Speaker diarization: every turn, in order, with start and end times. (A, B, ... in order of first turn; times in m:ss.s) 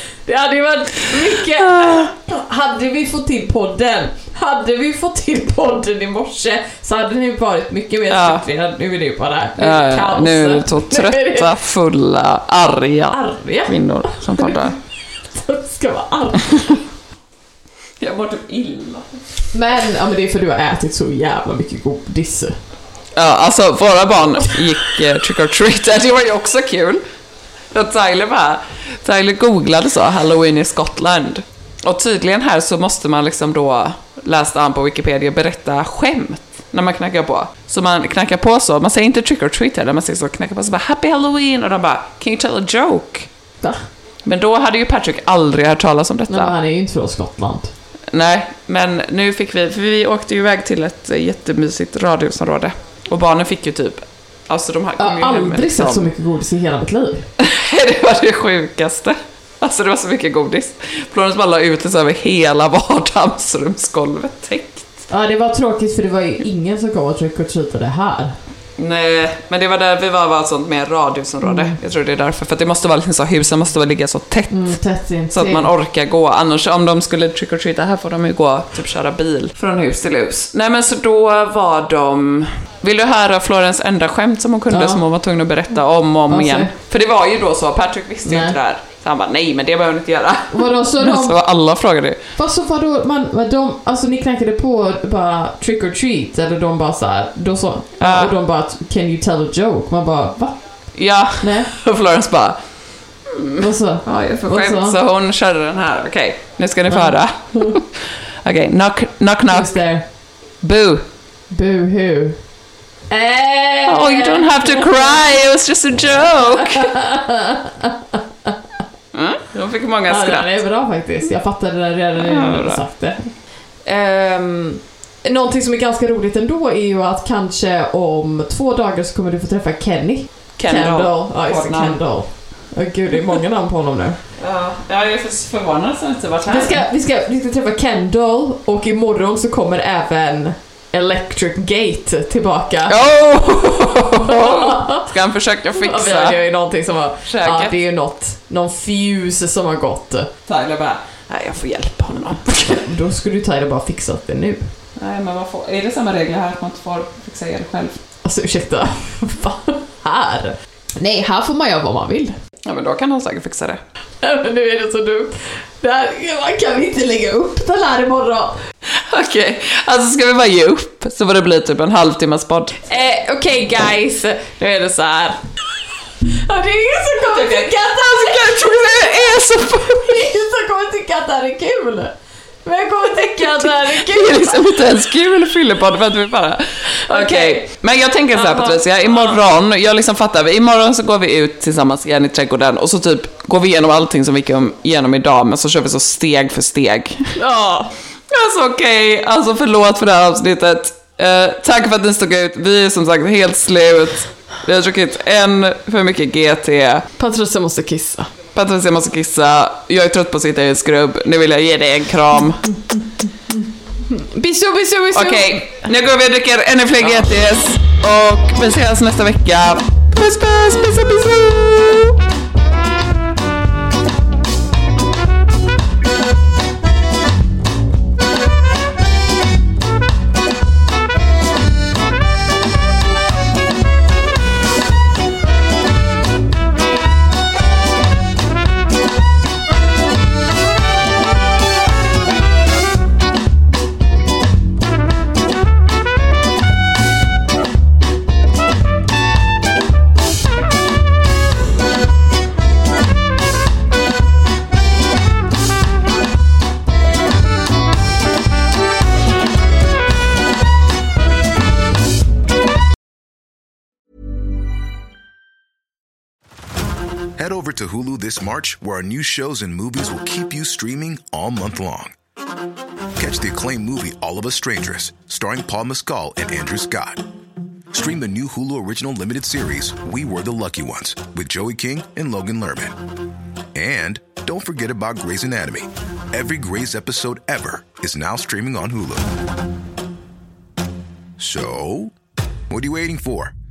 0:00.2-0:11.6 A
0:01.6-0:02.1 B
0:08.1-0:08.4 B
0:09.6-0:14.8 B
0:13.1-0:14.8 A
0:15.3-0:16.8 A
0:18.0-0:19.2 B
0:19.5-0:22.5 A
0:23.1-0:27.0 B
0:27.7-0:43.3 B
0:44.2-0:46.5 B
0:46.3-0:47.7 A
0:48.1-0:56.1 B
0:55.0-0:57.3 A
0:57.4-1:05.0 B
1:05.1-1:08.4 A
1:08.8-1:14.8 B
1:11.4-1:11.8 A
1:14.5-1:15.7 A
1:15.3-1:32.2 B
1:24.7-1:25.0 A
1:26.3-1:26.7 A
1:28.2-1:28.5 A
1:30.5-1:31.4 A
1:32.4-1:40.6 A
1:38.0-1:38.4 B
1:40.9-1:42.6 B
1:41.4-1:41.7 A
1:43.2-1:49.7 B
1:43.6-1:45.0 A
1:46.9-1:47.8 A
1:49.5-1:50.0 A
1:50.6-1:51.0 B
1:51.5-1:52.4 A
1:53.1-1:55.2 A
1:53.8-1:56.9 B
1:56.5-1:58.5 A
1:59.1-2:00.5 B
2:00.1-2:14.2 A
2:02.2-2:02.8 B
2:10.6-2:12.0 B
2:14.4-2:16.8 B
2:16.5-2:23.0 A
2:22.9-2:26.4 B
2:24.2-2:25.1 A
2:25.7-2:30.3 A
2:27.2-2:27.7 B
2:30.4-2:32.8 B
2:32.7-2:34.7 A
2:35.0-2:38.0 B
2:38.2-2:42.4 A
2:42.6-2:43.8 B
2:44.2-2:48.6 A
2:48.9-2:52.8 B
2:52.8-2:55.4 A
2:56.3-3:04.8 A
2:57.2-3:00.3 B
3:03.9-3:17.3 B
3:07.1-3:07.7 A
3:08.3-3:09.4 A
3:17.3-3:17.9 A
3:18.3-3:27.0 B
3:27.2-3:28.3 A
3:28.5-3:32.6 B
3:34.1-3:35.8 A
3:35.1-3:42.2 B
4:27.4-4:32.1 C
4:33.2-4:37.2 C
4:37.9-4:43.0 C
4:43.7-4:49.3 C
4:51.4-4:52.1 C
4:52.7-4:53.5 C